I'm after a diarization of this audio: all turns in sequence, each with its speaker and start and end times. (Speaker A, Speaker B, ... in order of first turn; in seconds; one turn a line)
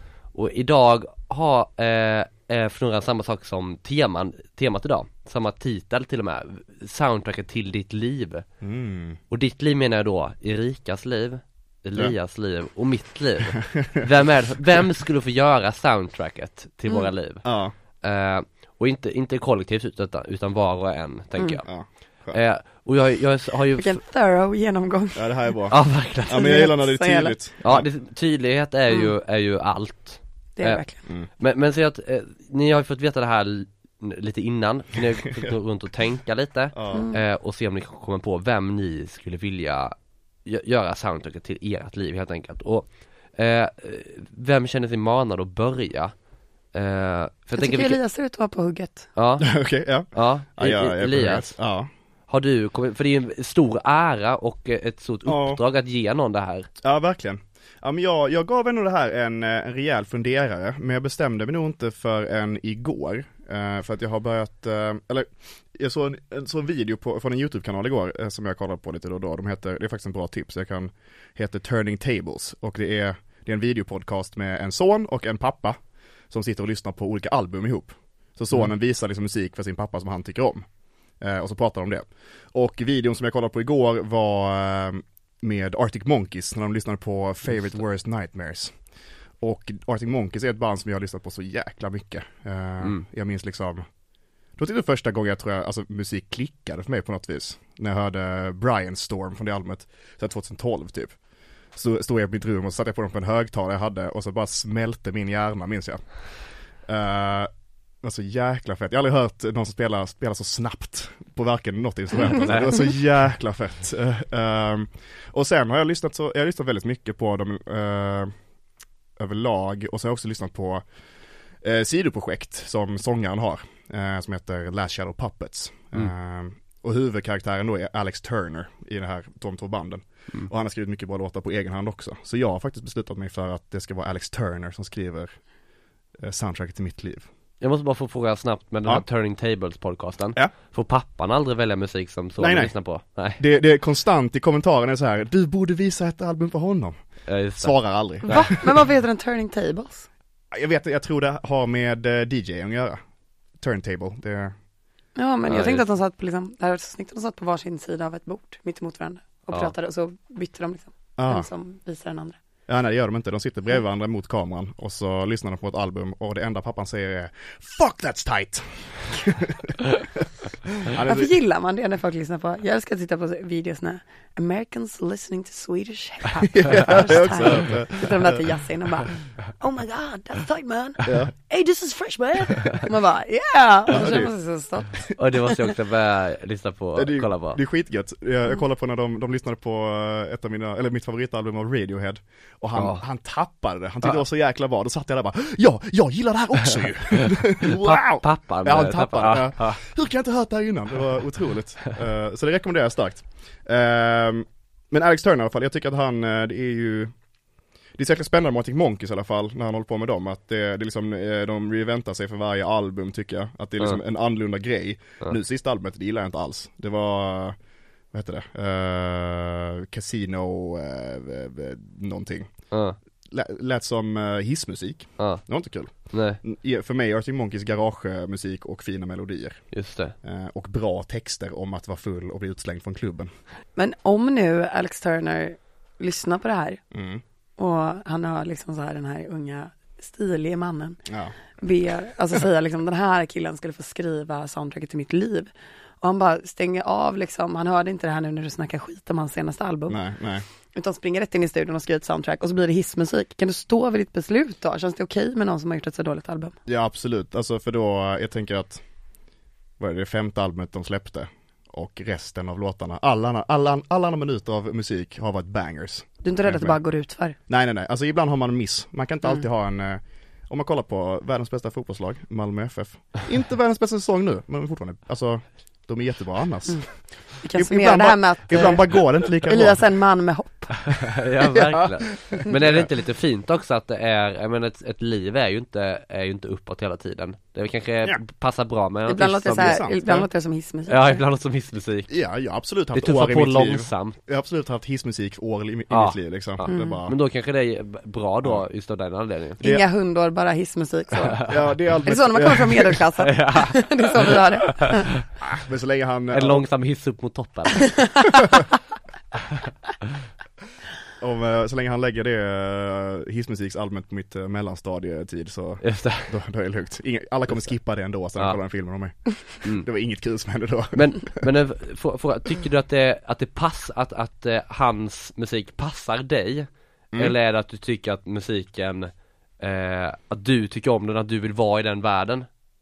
Speaker A: 0.3-8.4
Speaker B: 8.6-9.2
Speaker A: 9.3-17.4
Speaker B: 13.6-14.0
Speaker B: 17.4-17.7
Speaker A: 18.0-21.7
Speaker B: 21.6-22.4
Speaker A: 22.3-24.0
Speaker C: 23.8-25.5
Speaker B: 25.1-27.9
Speaker A: 25.7-26.5
Speaker C: 26.3-27.4
Speaker A: 27.6-30.8
Speaker C: 30.6-31.0
Speaker A: 31.4-46.1
Speaker B: 36.7-37.1
Speaker C: 36.9-37.2
Speaker A: 46.7-48.0
Speaker C: 47.5-49.1
Speaker A: 49.1-49.5
Speaker B: 49.4-51.9
Speaker A: 50.1-51.5
Speaker A: 52.3-56.7
Speaker B: 55.2-55.6
Speaker B: 56.8-75.8
Speaker B: 76.3-80.7
Speaker B: 81.2-88.8
Speaker B: 89.4-93.8
Speaker B: 94.6-101.2
Speaker B: 101.7-106.2
Speaker B: 106.8-107.5
Speaker B: 108.0-118.3
Speaker A: 112.3-112.8
Speaker B: 119.2-120.8
Speaker B: 121.6-135.3
Speaker B: 136.2-137.3
Speaker A: 137.6-143.4
Speaker B: 142.4-142.7
Speaker B: 143.4-147.0
Speaker A: 147.3-148.5
Speaker B: 147.6-148.7
Speaker C: 148.3-150.1
Speaker B: 150.5-153.0
Speaker B: 153.6-154.5
Speaker C: 155.2-162.4
Speaker A: 155.5-155.8
Speaker B: 161.2-161.5
Speaker B: 162.7-169.8
Speaker B: 170.9-171.3
Speaker C: 171.0-185.5
Speaker B: 176.5-178.4
Speaker B: 181.0-181.3
Speaker B: 183.9-184.3
Speaker A: 185.2-187.6
Speaker B: 186.9-207.1
Speaker A: 192.7-193.0
Speaker A: 197.6-199.8
Speaker B: 207.9-217.6
Speaker B: 218.1-222.5
Speaker A: 222.7-223.0
Speaker B: 223.3-229.6
Speaker A: 226.1-226.4
Speaker A: 229.7-230.1
Speaker B: 230.2-233.3
Speaker C: 233.8-236.8
Speaker B: 236.9-237.2
Speaker C: 237.6-241.0
Speaker B: 241.1-241.3
Speaker C: 241.6-250.0
Speaker B: 249.9-250.4
Speaker C: 250.7-256.5
Speaker B: 256.6-258.8
Speaker B: 259.8-266.8
Speaker C: 266.2-267.4
Speaker B: 267.5-277.0
Speaker C: 277.4-281.1
Speaker B: 277.5-279.8
Speaker A: 281.1-289.8
Speaker B: 282.2-282.9
Speaker C: 289.1-291.2
Speaker B: 289.6-290.3
Speaker A: 290.9-292.1
Speaker B: 292.1-297.2
Speaker A: 292.9-294.2
Speaker A: 295.9-299.6
Speaker C: 296.7-297.0
Speaker B: 299.6-299.9
Speaker C: 299.6-301.5
Speaker B: 301.5-303.0
Speaker C: 302.0-305.1
Speaker A: 303.2-304.0
Speaker B: 305.5-306.6
Speaker A: 306.3-307.9
Speaker C: 307.8-308.2
Speaker B: 311.2-321.4
Speaker A: 315.8-316.3
Speaker A: 320.9-332.5